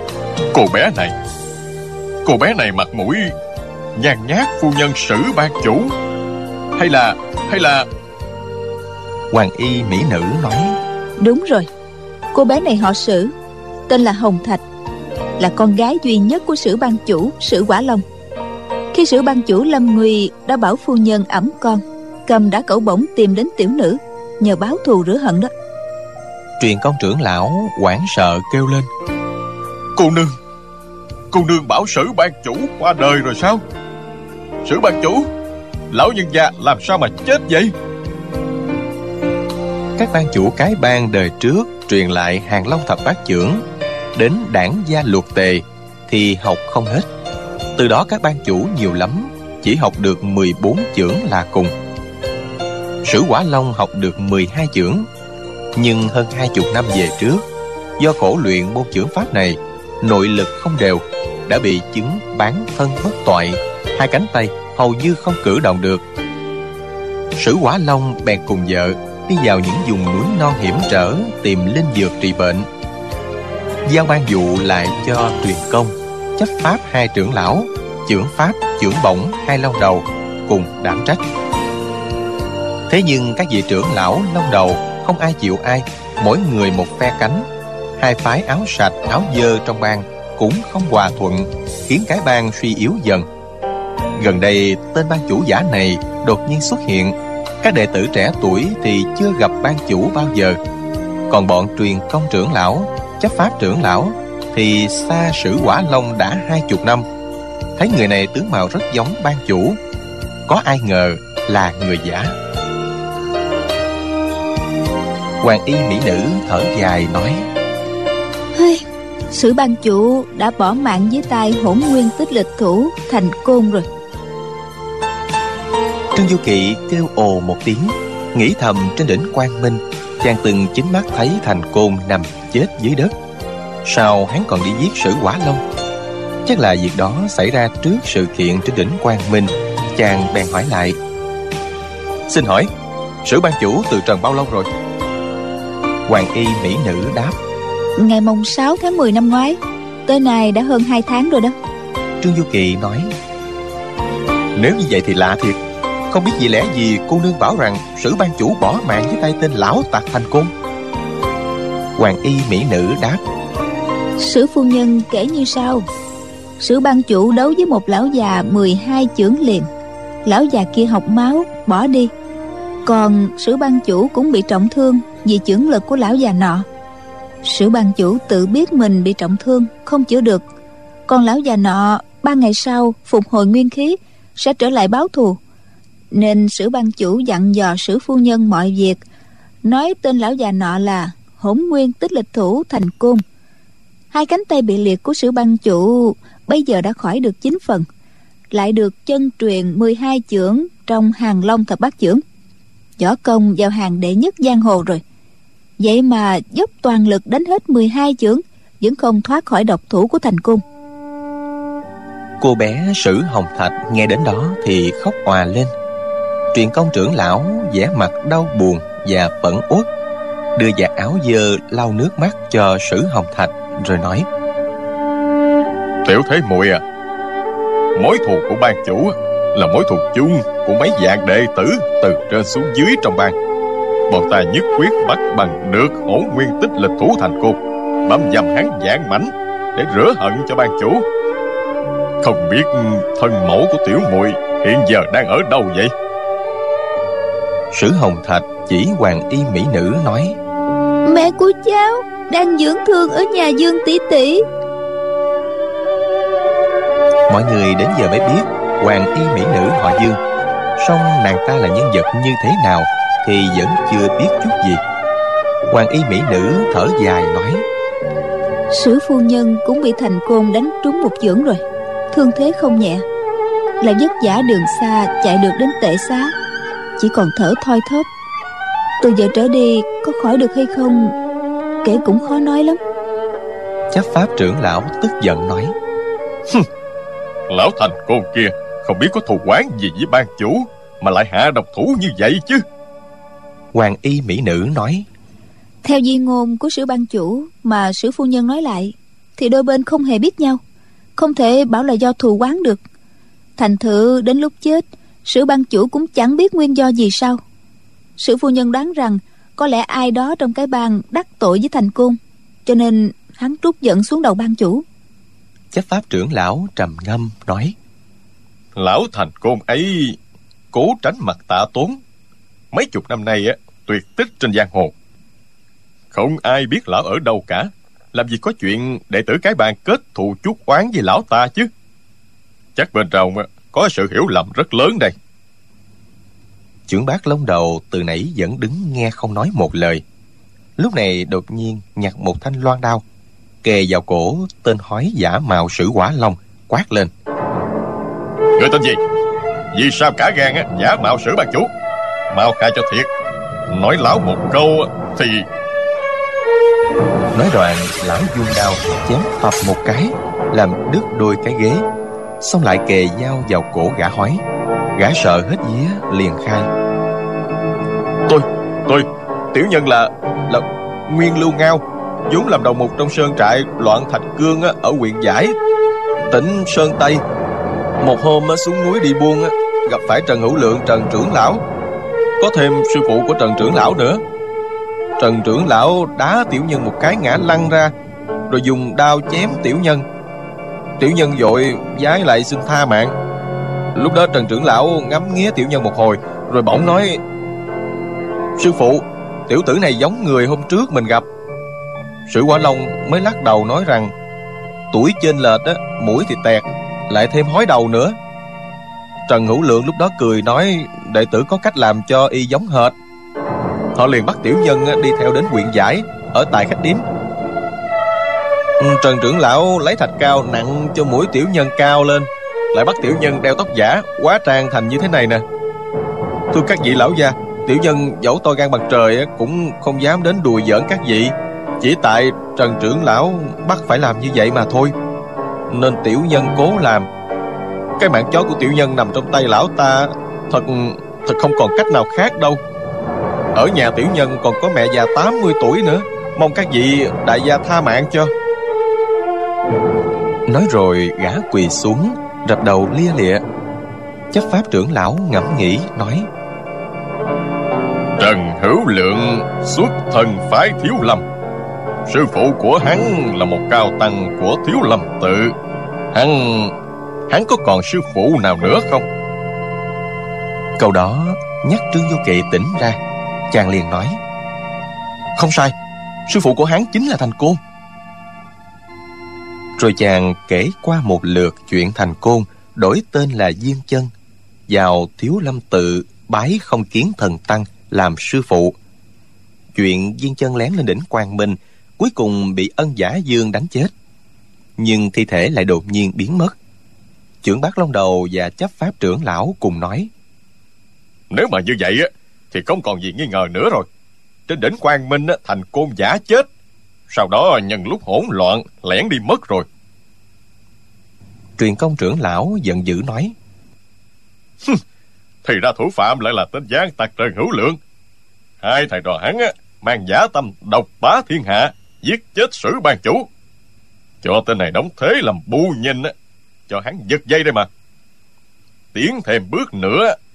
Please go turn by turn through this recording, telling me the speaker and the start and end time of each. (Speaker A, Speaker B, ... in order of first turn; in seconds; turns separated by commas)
Speaker A: 0.5-1.1, Speaker A: 2.2-3.3, Speaker A: 4.0-5.9, Speaker A: 6.8-7.9, Speaker B: 9.3-10.8, Speaker C: 11.2-11.7, Speaker C: 12.3-13.3, Speaker C: 13.9-14.6, Speaker C: 15.4-18.0, Speaker C: 18.9-25.5, Speaker B: 26.6-28.9, Speaker A: 29.9-30.4, Speaker A: 31.3-33.6, Speaker A: 34.6-35.3, Speaker A: 35.9-37.7, Speaker B: 40.0-43.6, Speaker B: 44.1-47.1, Speaker B: 47.8-51.7, Speaker B: 53.0-55.1, Speaker B: 55.7-57.4, Speaker B: 58.0-66.0, Speaker B: 67.3-72.7, Speaker B: 73.8-81.2, Speaker B: 82.9-87.5, Speaker B: 88.0-93.2, Speaker B: 94.2-100.6, Speaker B: 101.3-107.0, Speaker B: 107.8-109.8, Speaker B: 110.5-112.3, Speaker B: 115.4-117.5, Speaker C: 118.5-123.9, Speaker B: 126.1-133.1, Speaker B: 133.8-135.6, Speaker B: 136.4-141.0, Speaker B: 142.3-142.7, Speaker B: 143.2-144.7, Speaker B: 146.1-147.4, Speaker C: 148.0-151.5, Speaker B: 152.2-153.1, Speaker B: 154.6-160.5, Speaker B: 162.0-163.2, Speaker C: 164.2-165.8, Speaker C: 166.6-169.7, Speaker C: 170.2-172.1, Speaker C: 172.8-176.7, Speaker C: 177.4-180.4, Speaker C: 181.1-185.4, Speaker C: 186.1-189.0, Speaker C: 189.6-193.2, Speaker C: 194.1-197.9, Speaker C: 198.5-202.2, Speaker C: 203.0-205.0, Speaker C: 205.8-210.6, Speaker B: 212.4-215.7, Speaker B: 216.5-219.9, Speaker B: 220.6-224.3, Speaker A: 226.0-226.8, Speaker A: 227.9-233.3, Speaker A: 234.1-241.0, Speaker A: 242.2-245.9, Speaker B: 247.7-250.4, Speaker C: 251.1-254.4, Speaker B: 257.3-260.2, Speaker B: 260.8-264.8, Speaker B: 265.7-267.6, Speaker C: 268.7-273.0, Speaker C: 273.8-276.3, Speaker C: 277.0-278.1, Speaker C: 279.0-281.1, Speaker C: 281.8-282.8, Speaker B: 283.9-285.7, Speaker A: 287.5-292.6, Speaker B: 293.7-295.1, Speaker C: 295.8-300.6, Speaker C: 301.2-302.8, Speaker C: 303.6-307.4, Speaker C: 308.2-314.8, Speaker B: 315.7-317.8, Speaker A: 318.8-320.2, Speaker A: 320.7-322.0, Speaker A: 322.7-324.9, Speaker A: 326.1-331.7, Speaker A: 332.8-335.1, Speaker B: 336.9-340.0, Speaker B: 340.8-343.0, Speaker B: 343.6-347.1, Speaker A: 348.6-349.0, Speaker A: 349.7-351.7, Speaker A: 352.3-353.1, Speaker A: 353.7-355.5, Speaker B: 357.3-361.9, Speaker B: 362.4-364.4, Speaker B: 364.9-366.7, Speaker A: 368.3-370.6, Speaker B: 371.1-375.5, Speaker B: 376.3-377.2, Speaker B: 378.0-381.6, Speaker B: 382.4-384.2, Speaker B: 385.2-387.9, Speaker B: 388.5-390.0, Speaker B: 391.0-393.1, Speaker B: 393.9-397.2, Speaker B: 398.6-401.2, Speaker B: 402.3-404.1, Speaker B: 404.9-408.1, Speaker B: 409.3-412.9, Speaker B: 413.9-417.0, Speaker B: 418.8-422.8, Speaker A: 422.7-424.1, Speaker B: 423.5-425.4, Speaker B: 426.5-434.9, Speaker B: 435.7-437.1, Speaker A: 438.0-442.3, Speaker B: 438.7-440.6, Speaker B: 441.5-442.6, Speaker A: 443.5-448.3, Speaker B: 444.7-446.0, Speaker B: 450.5-453.4, Speaker B: 454.3-456.3, Speaker A: 458.2-461.2, Speaker A: 462.1-465.5, Speaker A: 466.1-466.7, Speaker A: 467.3-469.1, Speaker B: 470.8-473.0, Speaker B: 473.5-474.2, Speaker B: 475.4-475.7, Speaker B: 476.3-477.6, Speaker B: 479.8-484.1, Speaker B: 484.7-488.7, Speaker B: 489.7-493.9, Speaker B: 494.8-496.6, Speaker B: 497.4-500.1, Speaker A: 501.3-503.9, Speaker A: 504.5-506.5, Speaker A: 507.1-509.7, Speaker B: 511.6-513.3, Speaker A: 515.4-517.8, Speaker A: 518.6-523.3, Speaker A: 524.2-526.1, Speaker A: 526.7-527.7, Speaker A: 528.9-530.2